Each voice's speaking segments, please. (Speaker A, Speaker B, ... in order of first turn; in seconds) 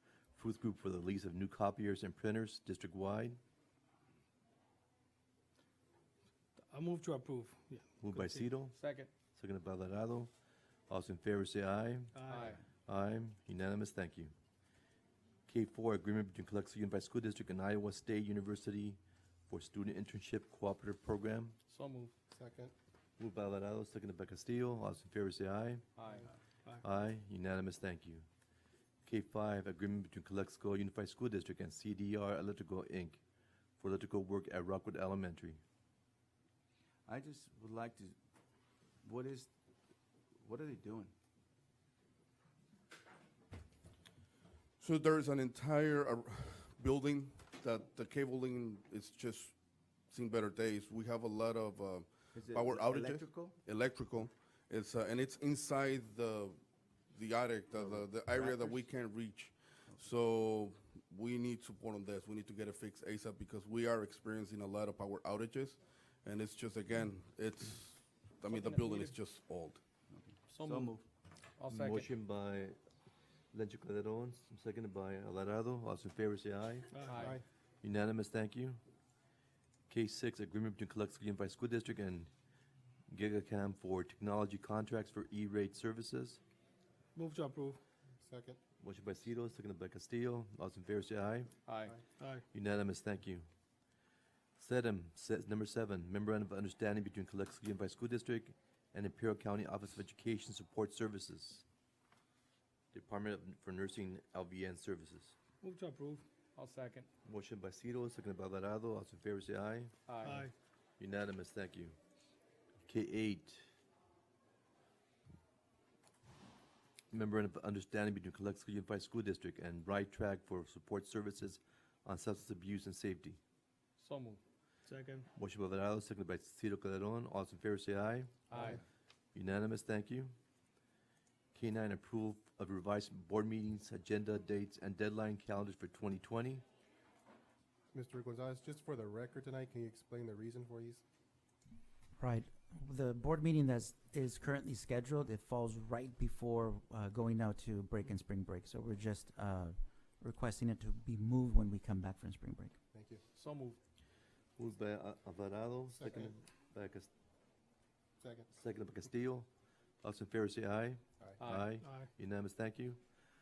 Speaker A: 0.3-3.4, 8.0-8.7, 9.3-10.3, 10.9-12.1, 12.8-14.3, 15.5-21.6, 23.2-25.8, 26.8-28.2, 29.1-33.2, 33.8-35.6, 71.7-72.8, 73.5-76.9, 77.8-78.8, 79.9-82.3, 83.1-86.4, 88.8-91.5, 92.5-93.5, 94.6-101.6, 102.9-105.3, 107.2-109.9, 111.0-112.0, 112.9-113.7, 117.1-123.4, 125.3-128.7, 129.3-130.3, 131.5-136.6, 154.6-157.1, 158.5-159.5, 160.0-163.0
Speaker B: 6.7-8.5, 12.1-12.6, 68.8-69.1, 76.9-77.2, 87.1-87.8, 92.2-92.4, 105.6-106.2, 110.2-110.5, 124.8-125.3, 161.8-162.1
Speaker C: 8.7-9.1, 12.3-12.6, 21.7-22.1, 25.9-26.3, 68.5-69.0, 70.5-70.9, 71.6-72.1, 77.1-77.4, 91.7-92.0, 106.5-107.1, 110.1-110.5, 124.0-124.4, 128.5-128.8, 153.3-153.8, 161.4-161.7
Speaker D: 22.3-22.7, 77.1-77.4, 88.2-88.6, 128.5-128.8, 137.9-141.0, 152.9-153.2, 156.0-156.3, 158.2-158.5
Speaker E: 37.0-38.2, 39.0-39.5, 40.4-41.1, 52.3-53.6, 57.7-58.9, 70.1-71.0
Speaker F: 44.8-49.5, 50.1-56.6, 57.1-69.8
Speaker G: 142.2-152.8